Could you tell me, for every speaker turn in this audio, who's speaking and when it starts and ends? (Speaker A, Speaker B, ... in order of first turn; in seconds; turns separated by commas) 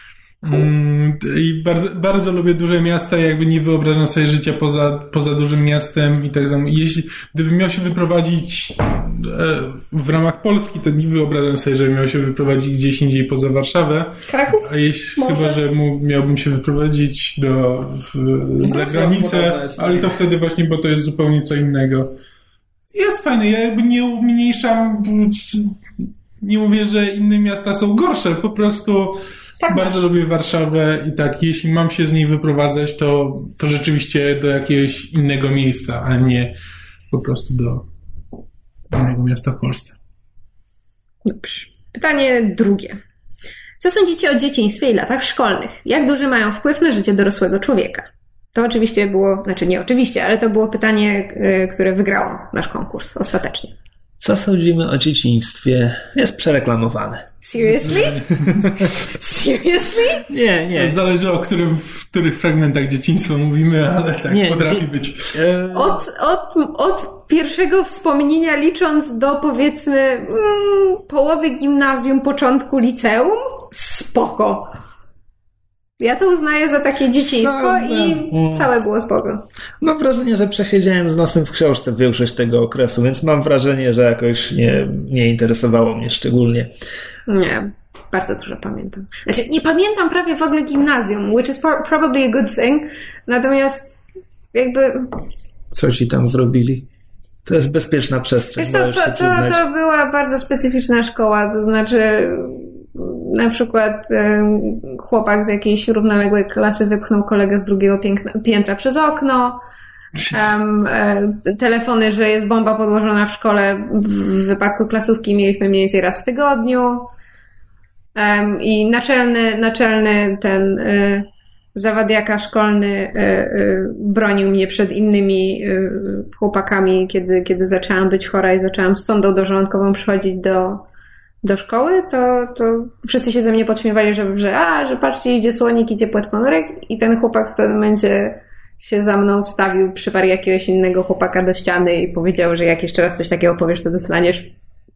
Speaker A: 0.4-22.1, Speaker B: 14.3-15.6, Speaker C: 18.6-20.2, Speaker A: 22.9-36.5, Speaker B: 29.6-30.0, Speaker A: 37.1-37.9, Speaker A: 38.9-40.0, Speaker B: 41.2-43.0, Speaker B: 43.8-53.7, Speaker C: 54.2-57.3, Speaker B: 57.4-58.4, Speaker A: 57.8-58.9, Speaker B: 59.0-60.3, Speaker C: 60.3-61.0, Speaker A: 60.7-65.4, Speaker C: 64.3-66.0, Speaker B: 65.7-74.7, Speaker B: 76.0-79.4, Speaker C: 77.2-78.7, Speaker C: 79.8-86.7, Speaker B: 87.3-94.0, Speaker B: 94.5-95.2, Speaker C: 95.7-96.9, Speaker C: 97.5-99.6, Speaker B: 98.6-109.6, Speaker B: 110.3-117.1, Speaker B: 118.2-130.8, Speaker B: 131.4-144.5